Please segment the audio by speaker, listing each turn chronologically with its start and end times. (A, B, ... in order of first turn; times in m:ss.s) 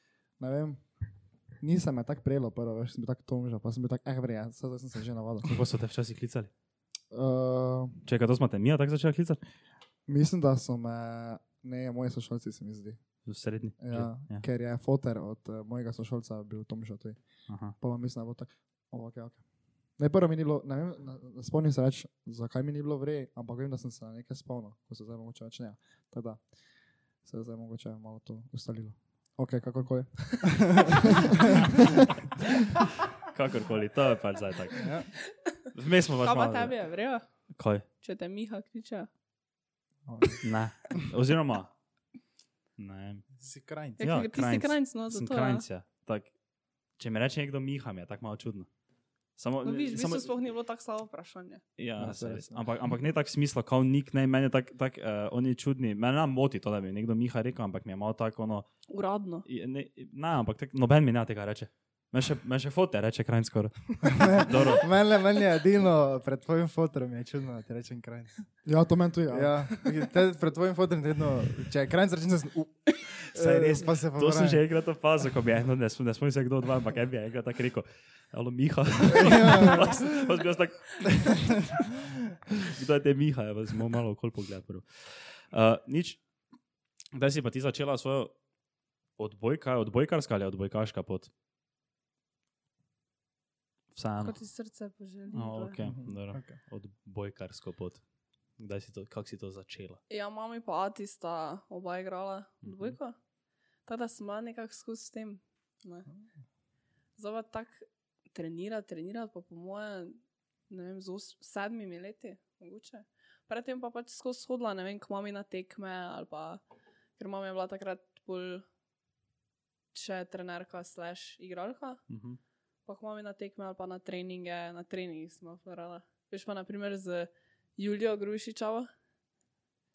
0:00.4-0:00.8 A
0:01.6-0:05.6 A
0:05.4-0:06.5 B
0:07.1-0:08.0 A
0:08.0-0:09.4 B
0:10.1-0:13.0 A
0:13.3-0:14.4 B
0:13.8-0:17.2 A
0:17.5-0:17.7 B
0:17.8-0:19.4 A
0:20.0-0:26.4 A
0:27.2-0:31.9 A
0:33.3-0:35.0 B
0:34.8-0:35.1 C
0:35.7-0:36.8 B
0:36.2-0:37.2 D
0:37.5-0:37.9 B
0:38.0-0:39.1 D
0:40.1-0:40.4 A
0:40.4-0:41.7 B
0:42.8-0:43.2 B
0:43.4-0:44.0 C
0:44.0-0:45.6 D
0:44.0-0:46.3 B
0:47.0-0:48.7 B
0:49.4-0:50.3 B
0:49.6-0:51.6 D
0:51.8-0:58.7 B
0:52.0-0:52.6 A
0:58.9-0:59.5 D
0:59.5-1:04.9 B
1:04.0-1:08.4 C
1:08.6-1:09.9 A
1:09.3-1:14.6 C
1:13.3-1:21.7 B
1:19.1-1:20.2 C
1:21.0-1:22.0 C
1:22.6-1:26.2 B
1:27.1-1:28.3 B
1:29.2-1:31.3 B
1:33.9-1:34.4 B
1:34.2-1:35.8 D
1:35.3-1:38.0 B
1:35.8-1:36.6 C
1:38.6-1:40.0 B
1:40.1-1:43.2 D
1:42.6-1:43.0 B
1:43.9-1:46.1 D
1:47.2-1:50.2 D
1:50.7-1:56.6 D
1:57.2-1:58.6 D
1:59.9-2:02.0 D
2:02.1-2:02.4 B
2:02.9-2:08.9 D